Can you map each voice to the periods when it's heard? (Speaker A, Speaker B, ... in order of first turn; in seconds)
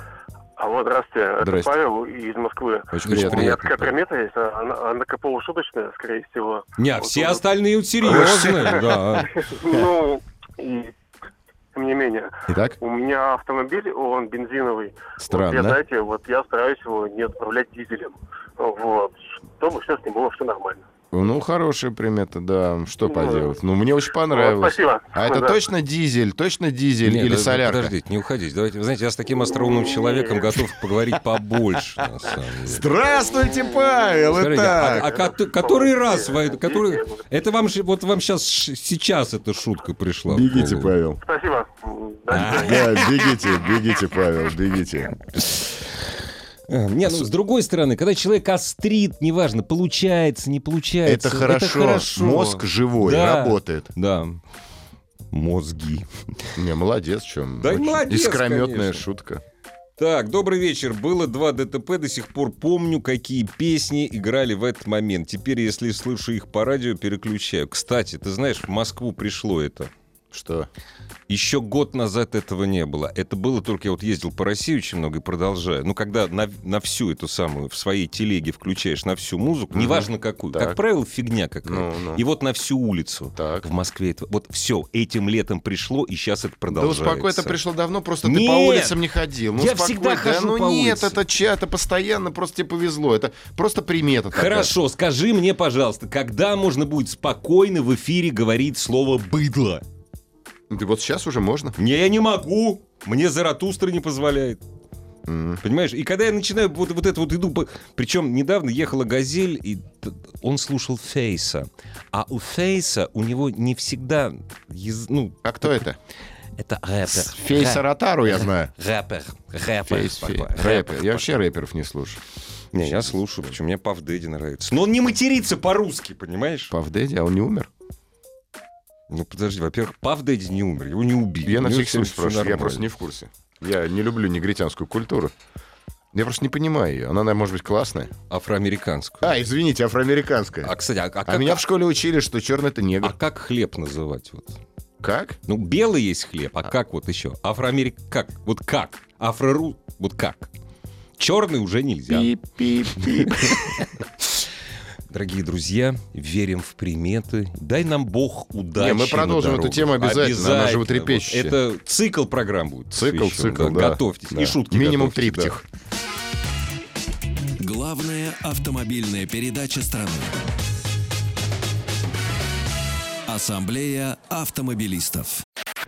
Speaker A: 0.6-7.5, 8.0-8.6, 9.4-10.9, 11.7-12.3, 12.8-20.8, 23.1-23.5, 24.3-25.6, 29.5-30.4, 33.3-34.2, 35.0-37.2, 41.2-43.3
Speaker B: 1.4-1.7, 2.9-3.6, 8.1-8.8, 12.5-12.8, 15.2-15.8, 21.1-27.9, 32.7-35.1, 40.3-41.2, 42.3-45.1, 51.0-53.9, 56.6-59.4, 70.3-70.7, 79.7-80.8, 81.7-82.2, 83.3-83.7, 86.7-94.8, 100.7-101.8, 105.3-105.6, 115.4-116.0, 117.1-118.7, 119.9-122.2, 122.8-123.6, 126.7-127.7, 131.4-135.3, 136.1-138.1, 139.2-140.7, 141.3-143.2, 145.0-145.4, 152.1-153.8, 158.8-161.6, 162.9-165.6
Speaker C: 3.0-4.0, 6.8-9.3, 27.1-32.8, 34.3-41.0, 42.3-43.1, 46.7-54.4, 55.3-56.1, 57.6-59.0, 60.0-69.9, 71.3-87.6, 88.2-89.0, 89.5-91.2, 94.3-99.8, 101.8-104.6, 105.6-115.5, 116.6-121.3, 122.7-126.7, 129.1-132.9, 138.3-139.3, 140.6-141.7, 143.0-144.6, 145.5-150.5, 151.2-152.3, 153.3-153.8, 155.1-165.6
Speaker D: 167.6-170.4, 173.3-175.4